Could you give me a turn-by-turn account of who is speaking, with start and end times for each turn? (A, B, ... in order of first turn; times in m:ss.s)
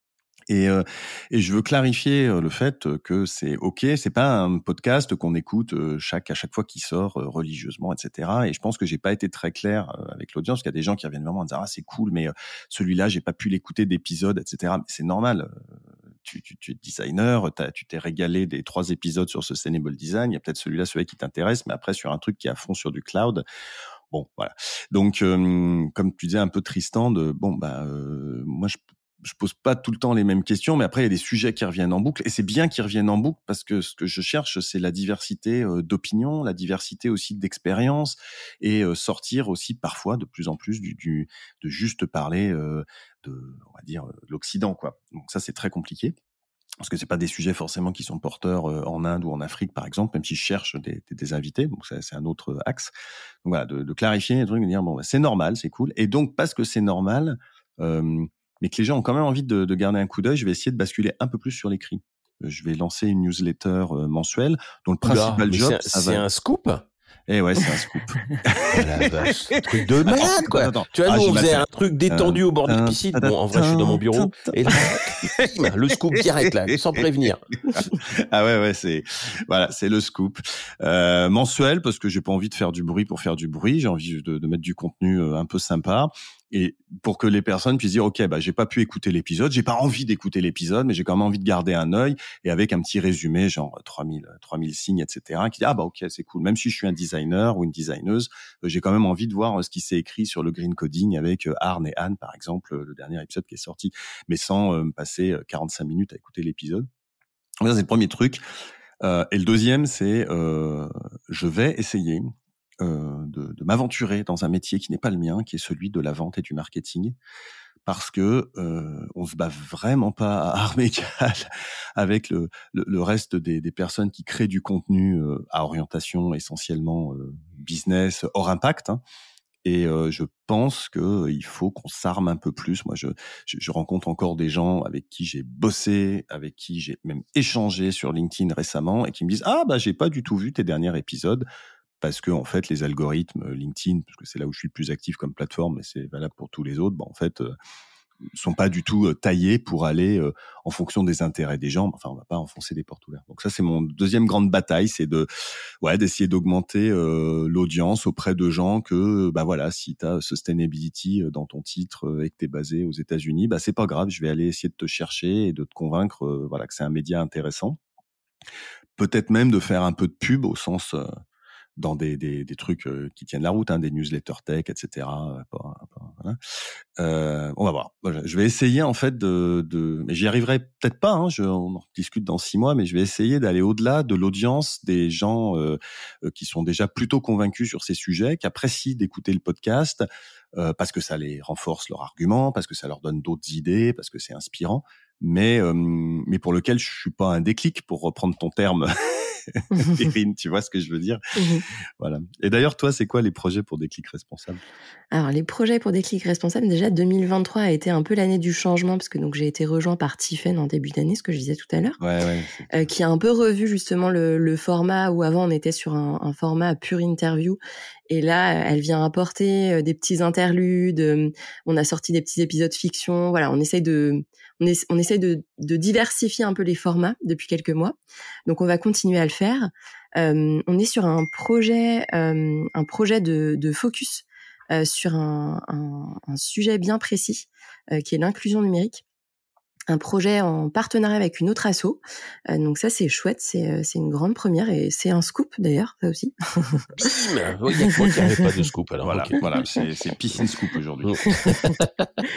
0:00.5-0:15.7 A
0:16.2-0:23.4 A
0:24.1-0:46.2 A
0:46.8-0:52.9 A
0:53.4-1:06.2 A
1:05.0-1:06.9 B
1:07.3-1:15.5 A
1:08.7-1:17.5 B
1:17.7-1:46.9 A
1:47.6-1:48.4 A
1:49.0-1:52.3 A
1:52.8-1:57.2 A
1:57.8-2:09.0 A
2:09.6-2:21.4 A
2:22.0-2:27.5 A
2:28.4-2:35.3 A
2:35.8-2:47.8 A
2:49.0-2:51.1 A
2:51.8-2:56.4 A
2:57.0-3:21.2 A
3:21.4-3:21.6 C
3:22.0-3:24.6 A
3:25.1-3:32.0 C
3:32.0-3:32.9 A
3:32.7-3:48.0 C
3:48.5-3:59.0 C
3:59.9-4:06.9 C
4:07.0-4:09.4 B
4:09.0-4:11.4 A
4:11.0-4:12.1 B